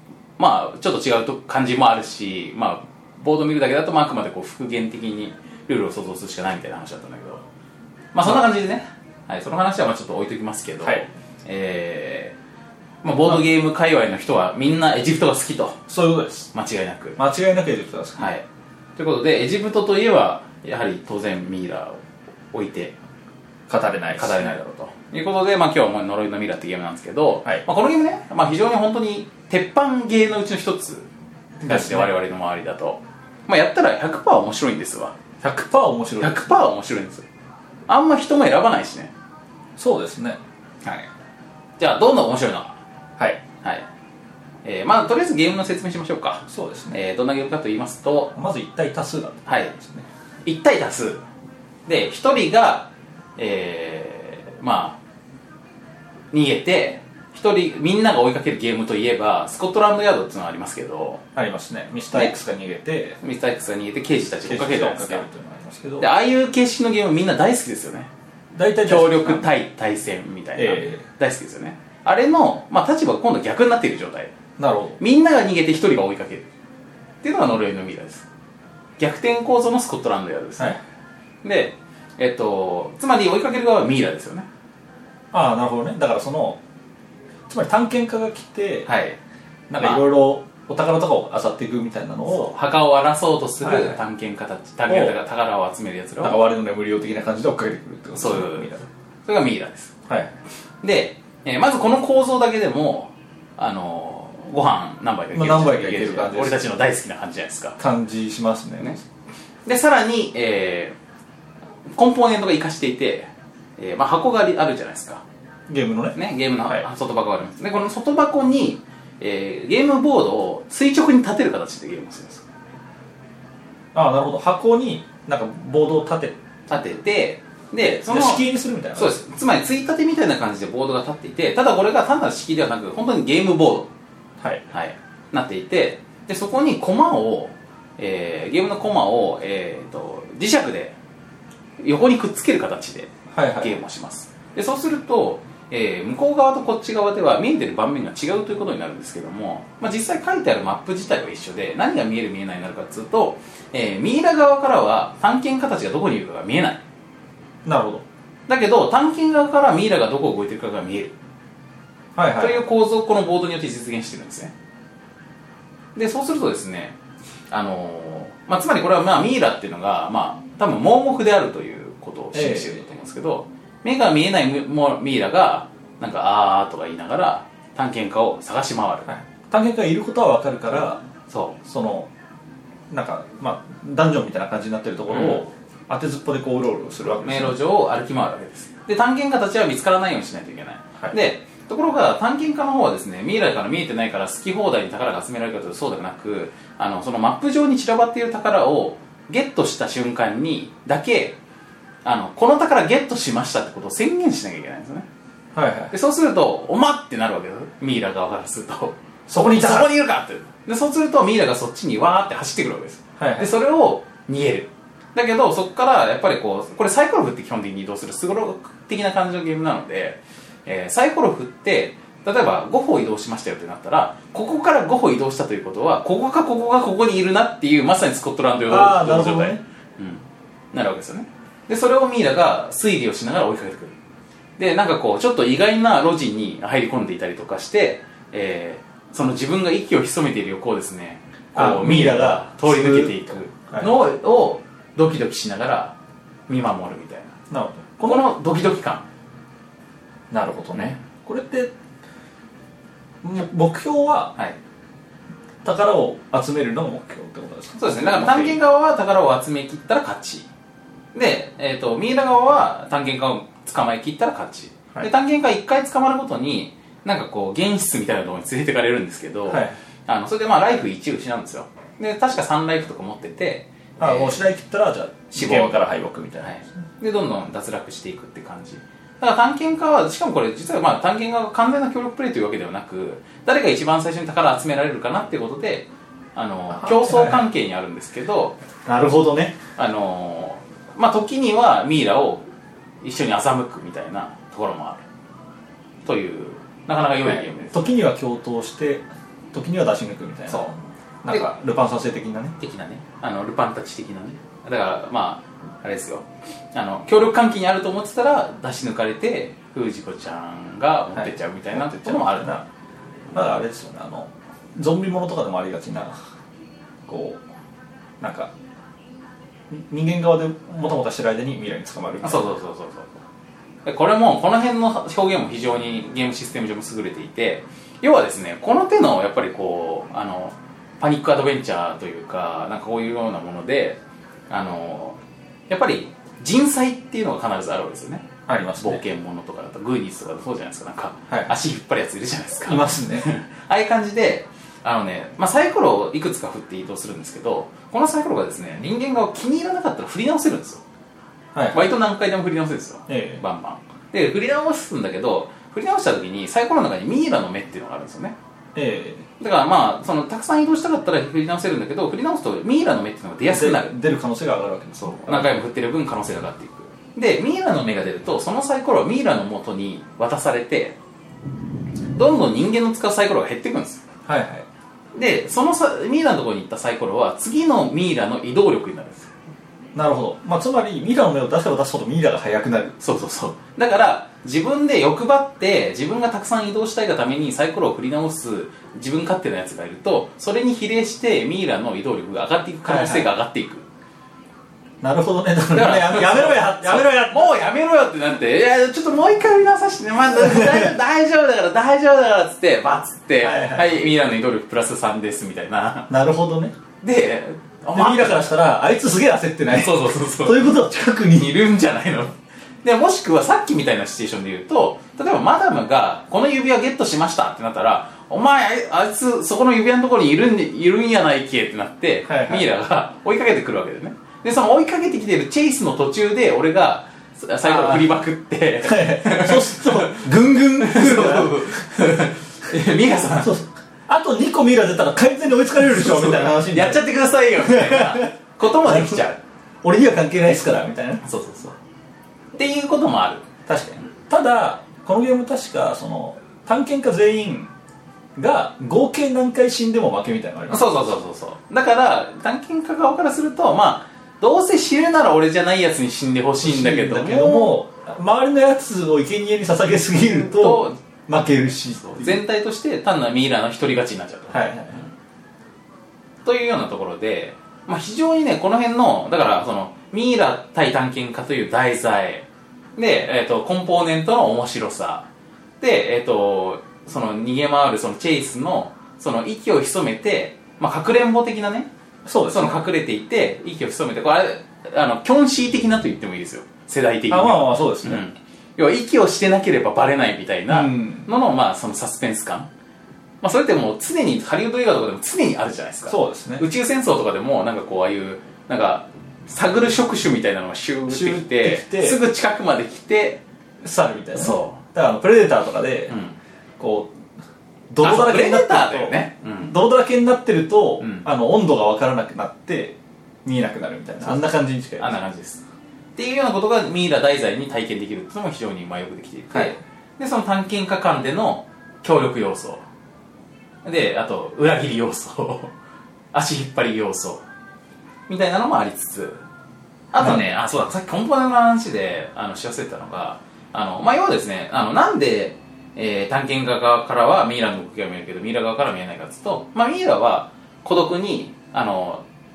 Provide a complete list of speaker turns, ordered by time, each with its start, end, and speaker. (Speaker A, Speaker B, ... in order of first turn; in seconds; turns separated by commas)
Speaker A: 0.4-7.4, Speaker A: 8.1-12.3, Speaker B: 10.8-11.1, Speaker A: 13.0-15.8, Speaker B: 15.9-16.5, Speaker A: 16.5-17.2, Speaker B: 17.2-18.3, Speaker A: 18.2-22.9, Speaker B: 23.7-24.5, Speaker A: 24.1-31.1, Speaker B: 31.6-32.1, Speaker A: 31.6-35.2, Speaker B: 35.4-36.5, Speaker A: 36.2-37.2, Speaker A: 37.9-39.1, Speaker B: 39.8-40.4, Speaker A: 41.8-42.8, Speaker A: 44.6-48.3, Speaker B: 46.5-47.0, Speaker B: 48.3-50.0, Speaker A: 49.5-49.8, Speaker A: 50.4-51.2, Speaker A: 51.9-55.0, Speaker A: 56.3-61.2, Speaker B: 61.3-63.2, Speaker A: 63.2-65.2, Speaker B: 64.5-66.1, Speaker A: 66.0-68.1, Speaker B: 68.5-69.5, Speaker A: 68.8-74.3, Speaker B: 70.5-71.0, Speaker B: 74.6-75.0, Speaker A: 75.0-76.5, Speaker A: 77.2-78.3, Speaker A: 79.0-80.8, Speaker A: 81.4-84.5, Speaker B: 85.3-86.6, Speaker B: 87.5-88.9, Speaker A: 88.8-89.2, Speaker B: 89.7-92.5, Speaker A: 89.8-90.0, Speaker A: 92.3-96.4, Speaker B: 93.6-94.0, Speaker B: 94.9-95.2, Speaker B: 96.2-98.9, Speaker A: 98.2-98.7, Speaker A: 99.2-99.9, Speaker B: 100.1-100.3, Speaker A: 100.8-107.8, Speaker B: 105.3-106.6, Speaker B: 107.8-109.0, Speaker A: 109.7-110.9, Speaker A: 111.9-115.2, Speaker B: 115.7-116.9, Speaker A: 116.1-122.4, Speaker B: 123.9-126.4, Speaker A: 126.7-133.9, Speaker B: 128.0-129.2, Speaker A: 134.7-140.9, Speaker A: 141.8-156.8, Speaker B: 143.3-143.8, Speaker B: 157.6-158.0, Speaker A: 158.5-161.1, Speaker B: 162.1-162.6, Speaker A: 162.4-164.5, Speaker A: 165.9-166.9, Speaker A: 167.5-179.1, Speaker B: 172.3-172.8, Speaker B: 179.1-181.0, Speaker A: 181.3-181.6, Speaker B: 181.6-182.1, Speaker B: 182.9-187.6, Speaker A: 185.1-185.4, Speaker A: 187.2-201.4, Speaker A: 202.0-205.1, Speaker B: 205.5-205.9, Speaker A: 205.9-233.9, Speaker B: 209.3-209.9, Speaker B: 213.2-213.5, Speaker B: 228.7-229.6, Speaker A: 234.6-245.9, Speaker B: 241.5-243.2, Speaker A: 246.5-247.4, Speaker B: 247.5-248.3, Speaker A: 248.0-249.1, Speaker B: 250.3-251.7, Speaker B: 253.2-254.3, Speaker B: 255.6-258.6, Speaker A: 257.8-260.5, Speaker A: 261.1-274.4, Speaker B: 269.5-269.8, Speaker B: 274.0-276.6, Speaker A: 275.3-275.8, Speaker A: 276.4-288.6, Speaker B: 286.7-287.5, Speaker B: 288.9-289.6, Speaker A: 289.8-292.5, Speaker A: 293.0-295.0, Speaker A: 296.0-297.9, Speaker B: 297.2-302.5, Speaker A: 302.6-312.5, Speaker B: 311.1-312.6, Speaker B: 313.3-316.2, Speaker B: 317.1-317.4, Speaker B: 318.2-318.5, Speaker B: 319.7-322.5, Speaker A: 322.2-323.1, Speaker A: 323.8-334.0, Speaker A: 334.5-335.2, Speaker A: 335.7-350.8, Speaker B: 338.5-339.0, Speaker B: 341.3-341.6, Speaker B: 342.6-343.3, Speaker B: 351.5-351.9, Speaker A: 351.7-358.4, Speaker B: 353.1-353.4, Speaker B: 358.7-359.2, Speaker A: 359.4-363.9, Speaker B: 363.4-365.5, Speaker A: 365.2-370.9, Speaker A: 372.1-374.0, Speaker B: 374.2-374.6, Speaker A: 375.1-379.3, Speaker B: 379.9-383.0, Speaker A: 383.0-393.9, Speaker B: 392.8-393.3, Speaker B: 395.0-397.6, Speaker A: 395.7-406.1, Speaker B: 400.3-400.9, Speaker B: 403.4-404.0, Speaker B: 406.1-406.7, Speaker A: 407.0-408.5, Speaker B: 407.9-411.6, Speaker A: 409.7-410.7, Speaker A: 411.3-430.3, Speaker B: 422.2-422.6, Speaker B: 427.6-428.1, Speaker B: 428.8-432.0, Speaker A: 430.8-433.5, Speaker B: 433.4-437.0, Speaker A: 435.9-439.4, Speaker B: 437.6-438.3, Speaker B: 438.8-439.2, Speaker B: 439.8-441.2, Speaker A: 441.2-441.8, Speaker A: 442.6-443.4, Speaker B: 443.7-447.7, Speaker B: 448.4-450.9, Speaker A: 450.7-457.8, Speaker B: 456.6-462.4, Speaker A: 460.2-461.0, Speaker A: 462.0-465.0, Speaker B: 464.5-465.0, Speaker A: 466.4-475.3, Speaker A: 475.8-481.9, Speaker B: 482.2-482.8, Speaker A: 482.5-492.7, Speaker B: 487.3-488.2, Speaker B: 490.7-491.3, Speaker A: 493.4-503.4, Speaker B: 496.1-496.6, Speaker B: 501.1-502.2, Speaker B: 503.8-506.1, Speaker A: 504.3-504.8, Speaker A: 506.1-506.4, Speaker B: 506.8-507.1, Speaker B: 507.9-515.1, Speaker A: 508.0-509.7, Speaker A: 511.0-511.2, Speaker A: 515.0-515.6, Speaker A: 516.1-522.8, Speaker A: 523.8-525.7, Speaker A: 526.3-527.4, Speaker A: 528.3-529.4, Speaker A: 530.1-542.2, Speaker B: 530.2-530.5